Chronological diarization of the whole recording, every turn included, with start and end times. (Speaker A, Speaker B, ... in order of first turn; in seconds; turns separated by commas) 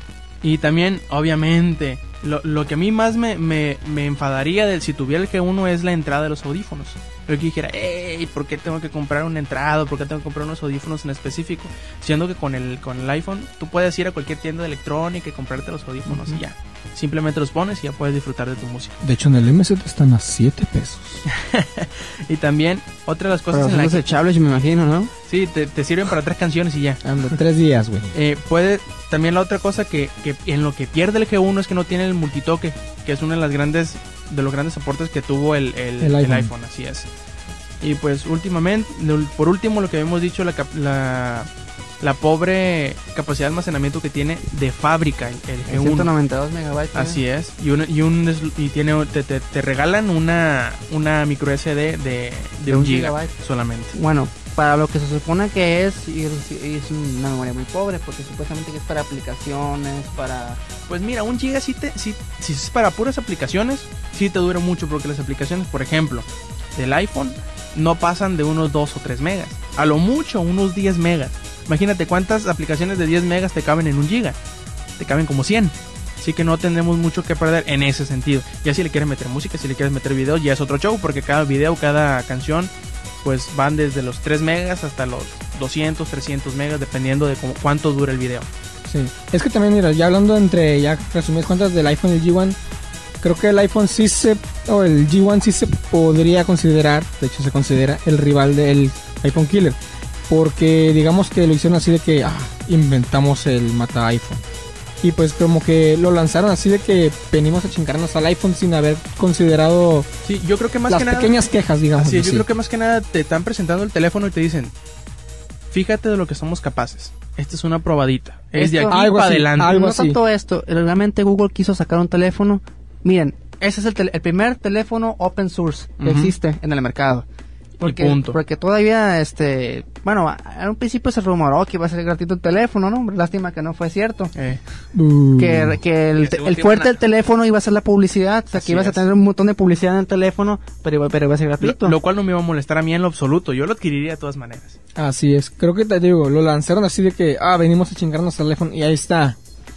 Speaker A: 0.4-19.0, Speaker B: 16.1-16.4, Speaker C: 19.0-21.2, Speaker A: 21.2-24.1, Speaker B: 23.5-25.1, Speaker A: 25.3-27.0, Speaker C: 27.1-28.1, Speaker A: 28.1-37.1, Speaker C: 36.0-36.5, Speaker A: 37.8-41.5, Speaker A: 42.0-46.1, Speaker B: 45.7-47.2, Speaker A: 46.9-53.9, Speaker B: 52.7-53.3, Speaker B: 53.9-60.6, Speaker A: 60.9-74.4, Speaker A: 75.0-82.7, Speaker A: 83.2-88.5, Speaker C: 88.9-92.6, Speaker C: 93.2-99.8, Speaker C: 100.3-104.4, Speaker C: 105.0-110.1, Speaker A: 110.2-111.4, Speaker C: 110.9-112.5, Speaker A: 112.0-114.7, Speaker A: 115.7-119.8, Speaker B: 118.5-119.0, Speaker C: 118.9-120.2, Speaker B: 119.6-127.2, Speaker A: 126.0-126.3, Speaker A: 127.8-128.4, Speaker B: 127.8-134.3, Speaker A: 134.3-134.6, Speaker C: 134.9-135.8, Speaker B: 135.4-142.0, Speaker A: 136.2-137.0, Speaker A: 138.5-139.0, Speaker A: 141.6-144.8, Speaker C: 144.9-149.4